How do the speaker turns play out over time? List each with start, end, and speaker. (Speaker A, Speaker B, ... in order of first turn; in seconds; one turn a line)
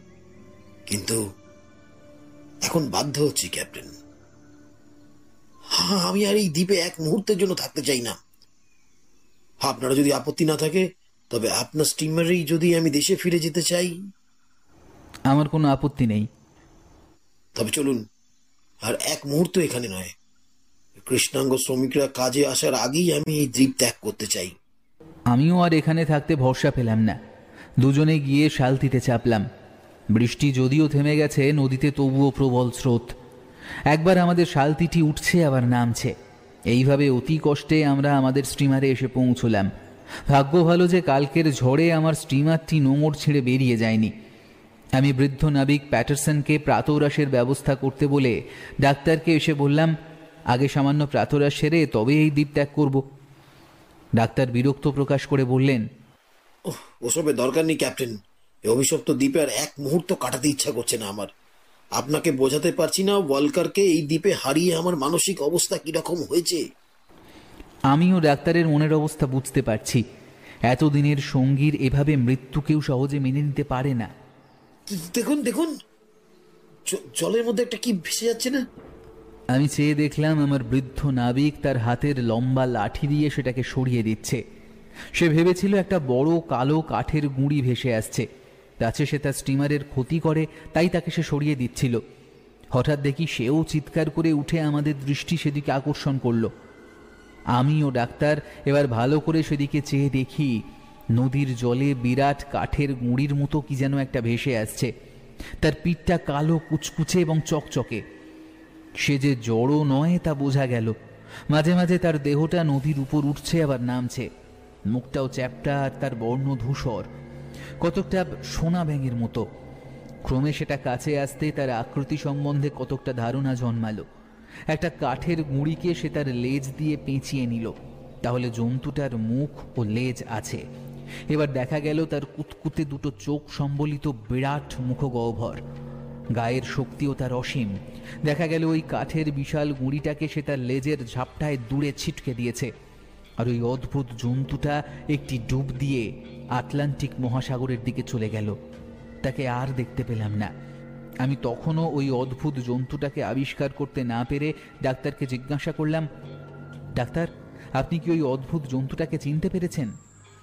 Speaker A: 0.9-1.2
Speaker A: 2.6-3.9
Speaker A: 5.8-8.2
Speaker A: 9.6-14.0
Speaker B: 15.3-16.3
Speaker A: 17.6-18.0
Speaker A: 18.8-20.1
Speaker A: 21.0-24.6
Speaker B: 25.3-27.2
Speaker B: 27.8-29.5
Speaker B: 30.1-33.1
Speaker B: 33.9-36.1
Speaker B: 36.7-39.7
Speaker B: 40.3-44.1
Speaker B: 45.0-49.9
Speaker B: 50.5-53.0
Speaker B: 54.2-55.8
Speaker A: 56.7-58.2
Speaker A: 58.7-61.3
Speaker A: 62.0-66.6
Speaker B: 67.9-70.0
Speaker B: 70.7-74.1
Speaker A: 74.9-75.7
Speaker A: 76.9-78.6
Speaker B: 79.5-84.4
Speaker B: 85.2-88.3
Speaker B: 88.8-92.0
Speaker B: 92.7-96.5
Speaker B: 97.6-100.5
Speaker B: 101.2-104.9
Speaker B: 105.6-108.0
Speaker B: 109.0-111.0
Speaker B: 111.5-114.3
Speaker B: 114.9-117.1
Speaker B: 117.8-119.5
Speaker B: 120.2-124.0
Speaker B: 124.7-130.6
Speaker B: 131.3-135.6
Speaker B: 136.4-142.7
Speaker B: 143.4-148.6
Speaker B: 149.2-150.5
Speaker B: 151.2-156.1
Speaker B: 157.0-159.9